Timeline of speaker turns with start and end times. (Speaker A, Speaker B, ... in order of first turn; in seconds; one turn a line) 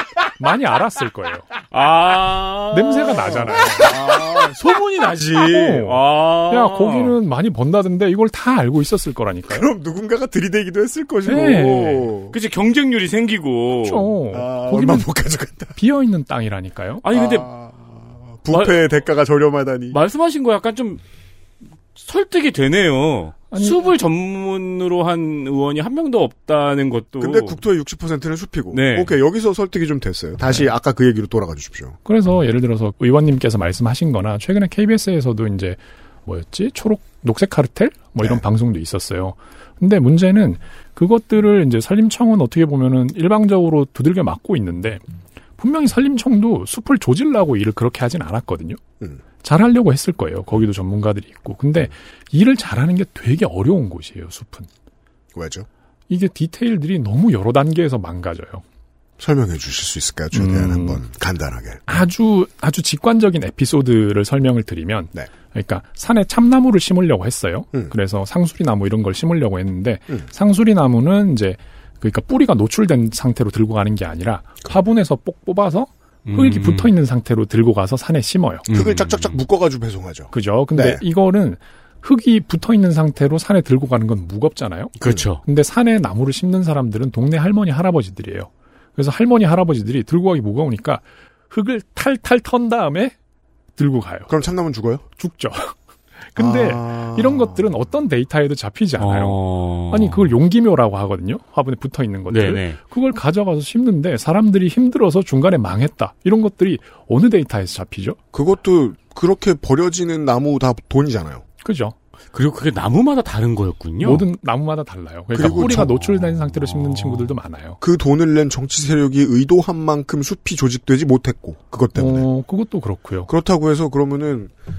Speaker A: 0.4-1.5
Speaker B: 1.7-7.2
Speaker A: 2.7-4.0
Speaker C: 3.7-4.4
Speaker A: 5.2-9.7
Speaker C: 9.5-12.3
Speaker A: 11.2-12.1
Speaker B: 11.3-14.1
Speaker A: 13.8-15.1
Speaker C: 14.3-15.8
Speaker A: 15.7-17.1
Speaker B: 17.0-17.5
Speaker C: 17.1-20.0
Speaker B: 18.5-18.8
Speaker B: 19.9-21.0
Speaker B: 21.9-27.6
Speaker A: 23.5-23.9
Speaker C: 27.2-32.0
Speaker B: 28.7-29.1
Speaker A: 32.0-45.0
Speaker A: 45.6-48.8
Speaker A: 49.4-54.7
Speaker C: 55.3-55.7
Speaker A: 56.1-58.6
Speaker C: 59.2-61.8
Speaker A: 60.3-61.0
Speaker A: 61.9-78.7
Speaker B: 76.2-76.9
Speaker B: 78.7-79.4
Speaker C: 78.7-81.0
Speaker A: 80.3-93.1
Speaker B: 85.0-85.4
Speaker A: 93.8-94.3
Speaker C: 94.3-95.0
Speaker A: 95.2-108.2
Speaker C: 96.3-97.8
Speaker B: 99.0-100.3
Speaker B: 102.3-102.8
Speaker C: 108.3-111.4
Speaker A: 111.6-111.9
Speaker B: 112.3-114.2
Speaker A: 114.0-117.8
Speaker C: 115.3-116.0
Speaker B: 115.4-115.7
Speaker B: 116.6-117.2
Speaker C: 117.8-122.3
Speaker A: 121.9-123.3
Speaker C: 123.3-124.5